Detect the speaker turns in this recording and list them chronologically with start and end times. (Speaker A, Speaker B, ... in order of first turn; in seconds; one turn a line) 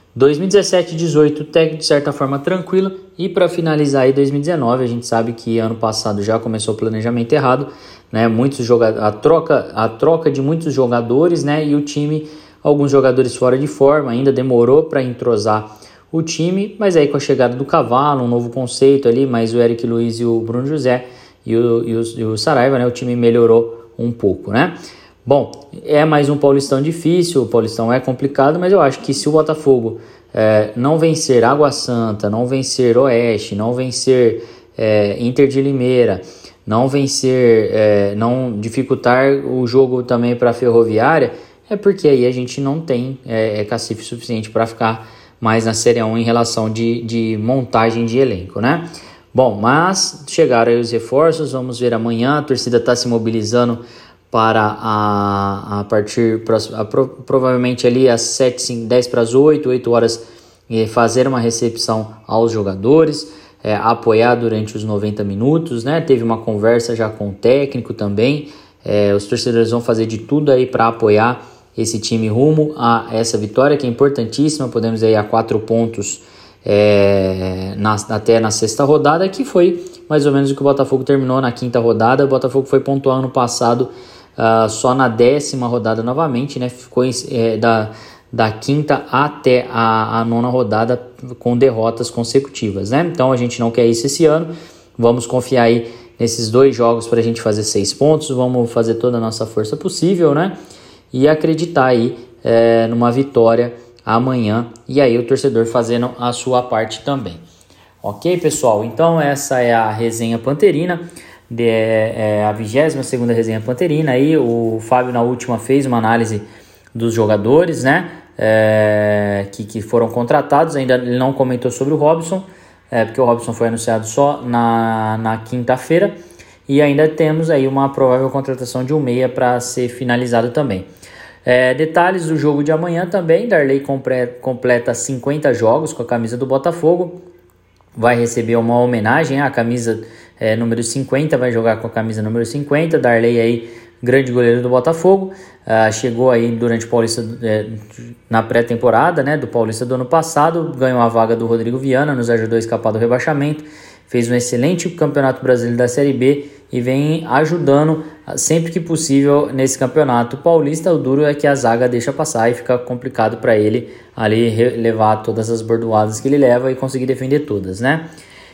Speaker A: 0.1-100.6
Speaker A: 101.1-107.4
Speaker A: 108.0-126.2
Speaker A: 126.7-130.9
Speaker A: 131.4-137.2
Speaker A: 138.0-168.1